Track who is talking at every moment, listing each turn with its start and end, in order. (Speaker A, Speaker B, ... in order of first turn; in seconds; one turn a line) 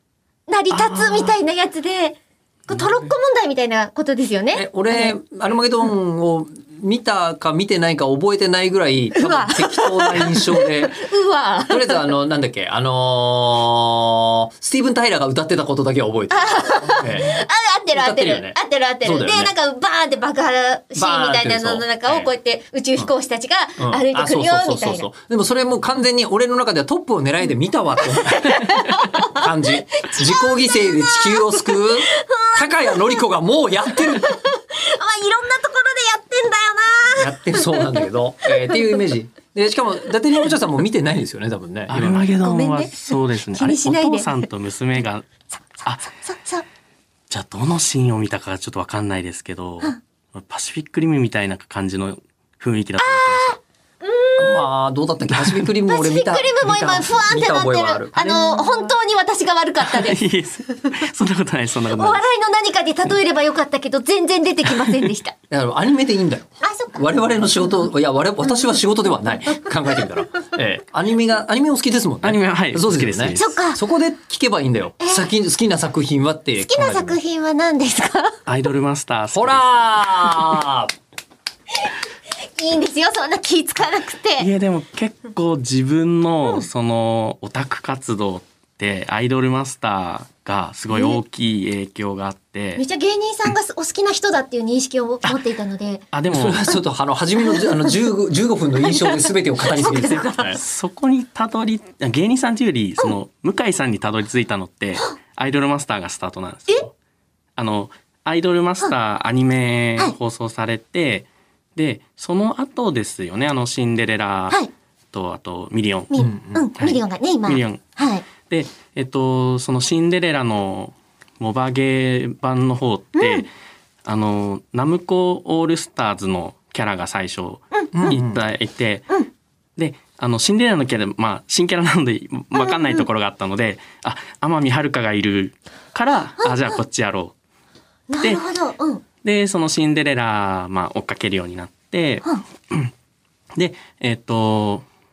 Speaker A: 0.5-5.1
Speaker B: 0.7-1.3
Speaker C: 4.5-11.0
Speaker A: 9.1-12.1
Speaker C: 11.7-17.4
Speaker A: 16.3-25.1
Speaker C: 17.9-19.5
Speaker C: 20.9-22.2
Speaker C: 23.8-34.4
Speaker A: 28.0-33.2
Speaker A: 33.9-39.0
Speaker C: 37.1-42.3
Speaker B: 41.9-45.3
Speaker A: 42.4-44.4
Speaker A: 45.8-46.6
Speaker B: 47.3-53.6
Speaker A: 53.0-54.7
Speaker C: 54.4-58.2
Speaker A: 55.9-60.2
Speaker B: 58.2-58.9
Speaker B: 59.8-62.2
Speaker A: 61.9-65.3
Speaker B: 64.7-64.9
Speaker C: 65.5-77.2
Speaker A: 66.6-67.0
Speaker B: 72.2-73.6
Speaker A: 73.3-73.8
Speaker A: 75.0-75.3
Speaker A: 76.7-78.4
Speaker B: 78.5-80.6
Speaker C: 79.3-80.9
Speaker A: 82.6-84.5
Speaker B: 84.4-92.8
Speaker A: 90.9-91.2
Speaker A: 92.8-96.0
Speaker B: 96.1-96.7
Speaker C: 96.3-100.6
Speaker A: 97.5-97.9
Speaker A: 98.8-100.6
Speaker B: 100.5-106.9
Speaker B: 107.6-114.6
Speaker B: 115.1-116.2
Speaker A: 116.1-118.2
Speaker C: 116.2-116.6
Speaker B: 116.8-117.8
Speaker B: 118.4-123.5
Speaker A: 123.1-123.5
Speaker B: 124.0-129.1
Speaker A: 127.8-128.1
Speaker C: 127.9-128.4
Speaker B: 129.8-137.3
Speaker A: 138.1-139.0
Speaker B: 139.2-142.9
Speaker B: 143.5-144.8